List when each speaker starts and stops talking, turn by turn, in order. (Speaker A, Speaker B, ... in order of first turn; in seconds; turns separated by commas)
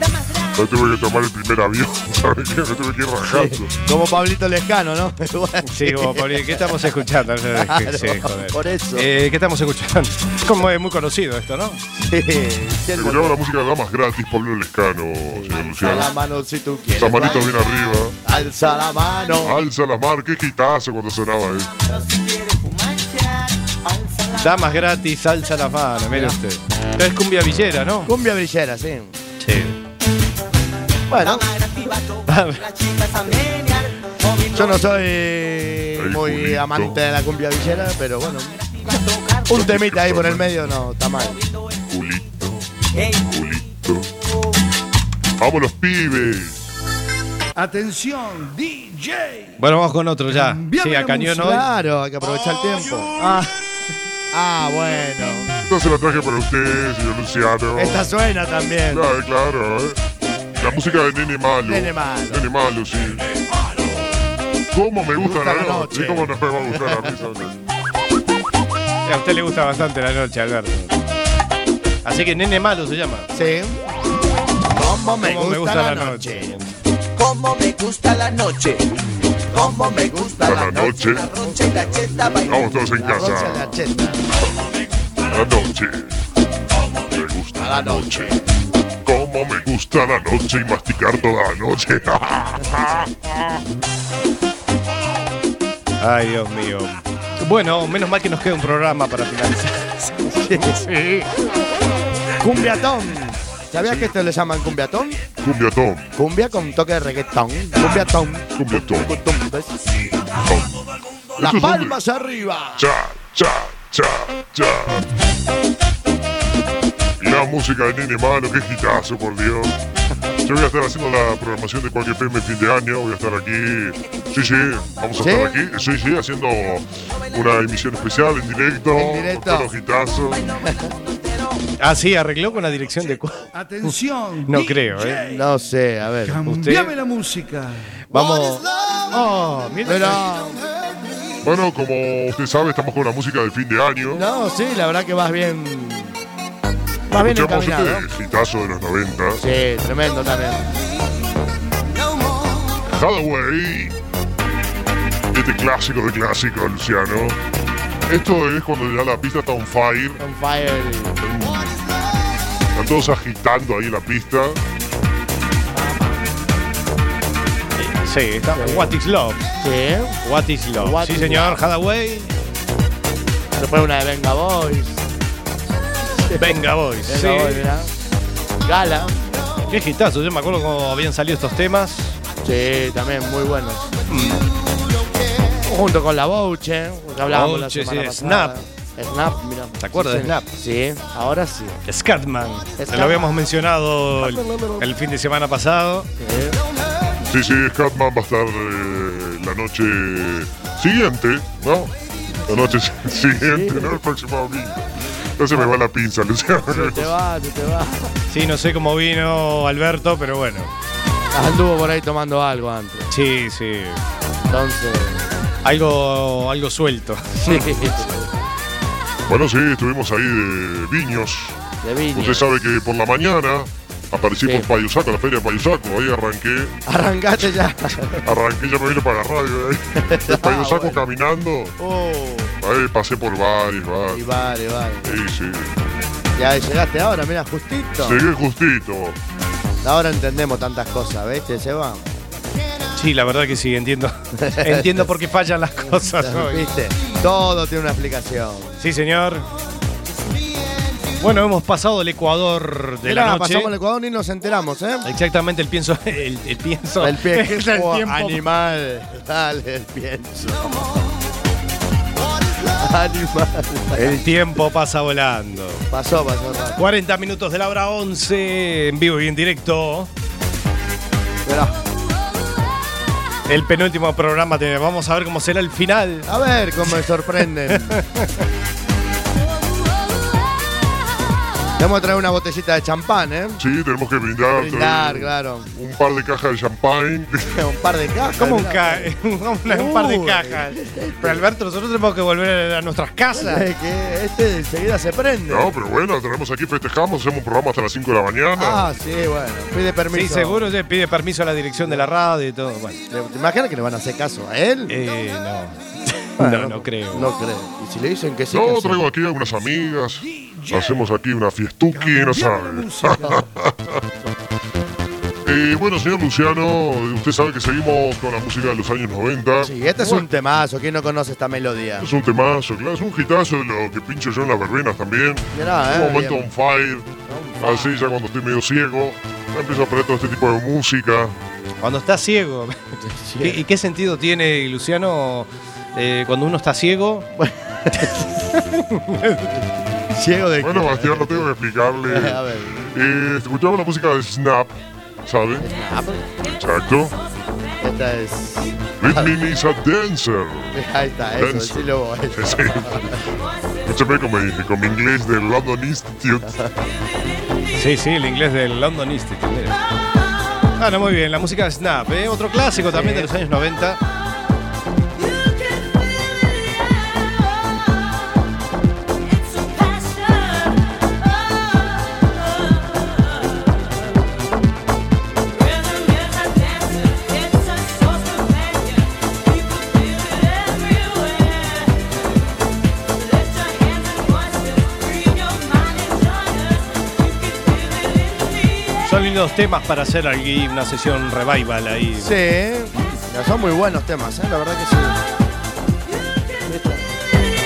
Speaker A: 0.6-3.7, Speaker B: 3.3-6.8, Speaker C: 5.7-11.8, Speaker B: 7.5-9.1, Speaker B: 11.9-13.4, Speaker A: 13.0-16.1, Speaker B: 15.3-17.6, Speaker A: 16.9-18.2, Speaker B: 18.2-19.6, Speaker A: 19.4-21.7, Speaker D: 21.9-24.6, Speaker C: 24.4-28.1, Speaker B: 26.1-26.4, Speaker B: 28.1-29.2, Speaker C: 29.4-29.8, Speaker B: 31.1-31.5, Speaker D: 31.2-34.8, Speaker C: 32.3-32.6, Speaker B: 34.5-38.6, Speaker A: 36.0-37.0, Speaker D: 38.8-39.5, Speaker B: 39.5-41.4, Speaker A: 39.5-40.5, Speaker D: 41.3-41.7, Speaker A: 41.9-42.7, Speaker D: 43.0-43.2, Speaker A: 43.2-44.1, Speaker A: 45.4-46.6, Speaker E: 47.6-49.6, Speaker C: 49.6-51.7, Speaker E: 50.3-51.5, Speaker B: 51.4-53.1, Speaker C: 53.2-53.5, Speaker B: 54.3-55.5, Speaker A: 55.7-58.0, Speaker B: 57.8-59.1, Speaker A: 58.9-60.0, Speaker A: 60.5-63.2, Speaker B: 61.6-62.5, Speaker A: 64.7-67.5, Speaker B: 65.2-67.2, Speaker C: 69.1-71.0, Speaker C: 72.0-73.3, Speaker B: 73.3-73.8, Speaker B: 74.7-76.5, Speaker C: 75.2-76.7, Speaker D: 77.2-78.8, Speaker B: 79.5-84.2, Speaker D: 79.5-82.7, Speaker A: 80.4-81.3, Speaker A: 82.4-83.8, Speaker A: 85.3-86.1, Speaker A: 87.0-88.3, Speaker B: 87.5-88.4, Speaker A: 89.0-93.1, Speaker C: 96.0-101.3, Speaker B: 100.3-100.8, Speaker B: 102.4-105.2, Speaker A: 103.8-104.1, Speaker A: 105.4-106.1, Speaker B: 106.2-110.0, Speaker A: 108.6-109.1, Speaker A: 110.4-110.7, Speaker A: 111.4-112.0, Speaker B: 111.4-112.9, Speaker A: 112.8-115.1, Speaker A: 117.2-119.7, Speaker A: 120.4-130.5, Speaker B: 125.2-125.6, Speaker B: 128.9-129.7, Speaker C: 131.8-133.9, Speaker E: 133.5-135.4, Speaker C: 134.5-135.2, Speaker B: 135.2-136.4, Speaker E: 136.3-138.0, Speaker C: 136.4-136.9, Speaker C: 138.1-140.2, Speaker B: 139.8-140.7, Speaker A: 141.4-144.3, Speaker B: 144.1-146.2, Speaker B: 147.1-148.1, Speaker A: 147.1-149.4, Speaker B: 149.3-150.8, Speaker A: 152.9-153.9, Speaker A: 155.3-157.4, Speaker A: 158.1-160.2, Speaker B: 160.2-161.2, Speaker A: 161.2-161.8, Speaker A: 162.8-164.6, Speaker C: 167.8-169.5, Speaker B: 168.5-168.9, Speaker B: 169.6-170.2, Speaker C: 170.2-172.3, Speaker B: 170.8-171.6, Speaker B: 173.6-175.0, Speaker B: 176.2-177.9, Speaker C: 176.3-177.7, Speaker B: 178.7-179.2, Speaker C: 179.7-182.2, Speaker B: 182.4-183.9, Speaker C: 184.1-184.5, Speaker B: 185.6-191.8, Speaker C: 187.2-188.5, Speaker C: 189.8-190.5, Speaker C: 191.9-196.1, Speaker B: 192.8-193.4, Speaker B: 194.2-194.9, Speaker B: 196.2-196.6, Speaker A: 197.3-201.9, Speaker A: 202.5-207.1, Speaker B: 203.4-204.0, Speaker B: 206.7-208.1, Speaker C: 208.3-210.7, Speaker B: 211.3-213.1, Speaker C: 213.1-214.0, Speaker B: 214.4-215.3, Speaker C: 215.6-218.0, Speaker B: 217.5-218.3, Speaker A: 219.3-221.6, Speaker B: 221.8-222.5, Speaker A: 222.1-226.8, Speaker B: 224.4-224.7, Speaker B: 226.9-228.2, Speaker A: 228.2-231.8, Speaker B: 230.0-231.0, Speaker B: 231.8-232.6, Speaker A: 232.6-234.2, Speaker B: 234.1-235.2, Speaker A: 235.0-235.8, Speaker B: 236.4-238.2, Speaker A: 238.0-239.2, Speaker B: 239.8-242.1, Speaker C: 243.0-246.7, Speaker B: 244.4-245.1, Speaker B: 245.9-248.8, Speaker C: 248.8-249.5, Speaker C: 251.2-253.7, Speaker B: 253.0-255.1, Speaker C: 255.1-258.4, Speaker B: 257.0-260.9, Speaker B: 262.7-264.2, Speaker C: 263.9-265.9, Speaker B: 265.9-266.8, Speaker C: 266.8-270.1, Speaker B: 271.4-271.8, Speaker C: 273.5-276.3, Speaker B: 276.3-278.0, Speaker C: 277.7-278.4, Speaker B: 281.8-283.6, Speaker A: 283.6-287.6, Speaker B: 284.5-285.7, Speaker B: 287.5-289.1, Speaker C: 288.4-293.7, Speaker B: 289.7-291.4, Speaker B: 293.3-295.8, Speaker A: 295.5-298.9, Speaker B: 298.6-300.7, Speaker C: 300.1-303.0, Speaker B: 301.8-302.1, Speaker B: 303.1-305.0, Speaker C: 304.9-307.3, Speaker B: 306.4-309.0, Speaker A: 308.5-313.8, Speaker E: 310.2-311.1, Speaker E: 311.9-313.4, Speaker A: 315.4-320.2, Speaker B: 319.6-322.1, Speaker A: 322.0-331.4, Speaker B: 325.5-326.5, Speaker B: 327.3-328.0, Speaker C: 331.8-337.3, Speaker B: 333.0-333.6, Speaker B: 337.4-338.6, Speaker C: 338.6-339.6, Speaker B: 340.1-341.5, Speaker A: 340.6-345.7, Speaker B: 342.1-342.8, Speaker B: 345.6-346.3, Speaker A: 346.4-347.2, Speaker B: 347.8-349.4, Speaker A: 349.0-350.8, Speaker B: 350.7-353.2, Speaker A: 351.4-353.2, Speaker A: 353.9-356.5, Speaker B: 356.5-356.7, Speaker C: 357.7-359.8, Speaker C: 360.8-364.0, Speaker B: 362.8-363.4, Speaker C: 389.0-392.3, Speaker B: 392.2-395.2, Speaker B: 396.6-397.0